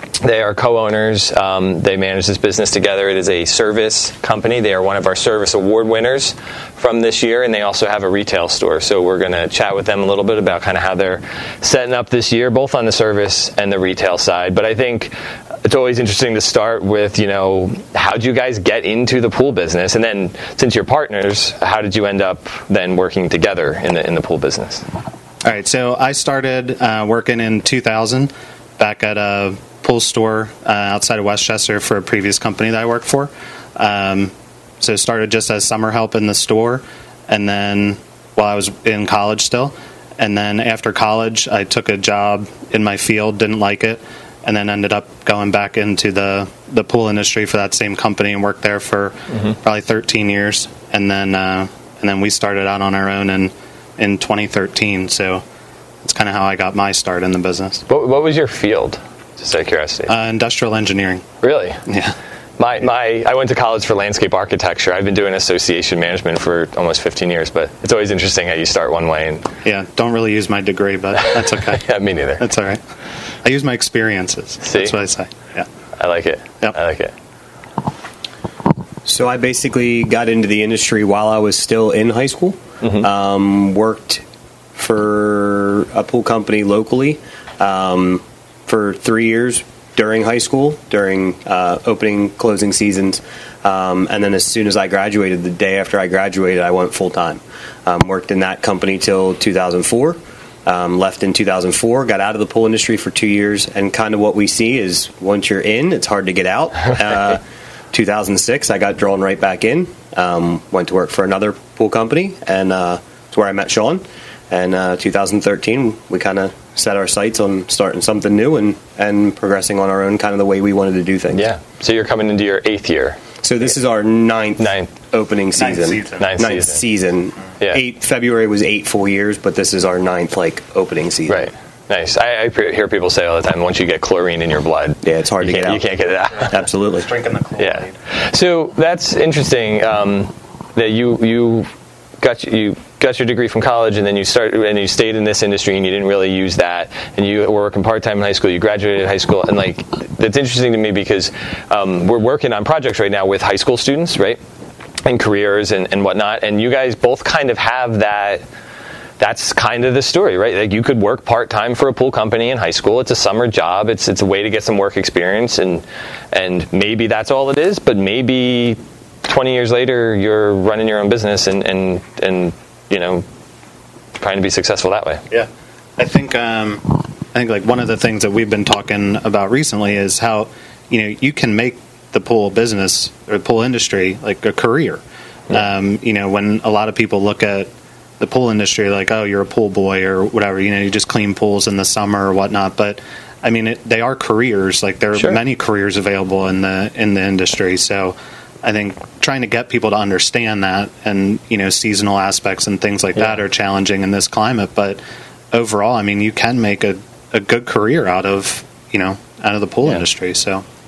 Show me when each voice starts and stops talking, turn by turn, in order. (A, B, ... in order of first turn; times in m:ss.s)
0:00.2-0:24.8 A
0:25.4-0:55.4 B
0:56.0-0:57.9 B
0:57.9-1:00.1 A
1:00.1-1:01.2 B
1:01.4-1:01.8 A
1:01.9-1:02.2 B
1:02.6-1:09.5 A
1:09.6-1:11.8 B
1:11.2-1:12.4 A
1:12.4-1:12.8 B
1:13.4-1:15.7 B
1:14.6-1:15.0 A
1:16.0-1:17.1 A
1:19.0-1:24.2 C
1:24.8-1:47.4 C
1:47.9-2:01.5 C
2:01.3-2:03.2 A
2:03.4-2:11.5 C
2:04.6-2:04.9 A
2:05.6-2:06.4 B
2:06.2-2:06.8 A
2:11.3-2:16.6 A
2:15.0-2:15.8 C
2:16.5-2:17.1 C
2:17.0-2:17.9 B
2:17.6-2:21.7 A
2:22.2-2:34.4 A
2:35.1-2:38.4 A
2:39.2-2:53.2 A
2:54.2-2:55.2 A
2:55.3-3:07.7 B
3:08.2-3:25.0 B
3:25.5-3:30.6 B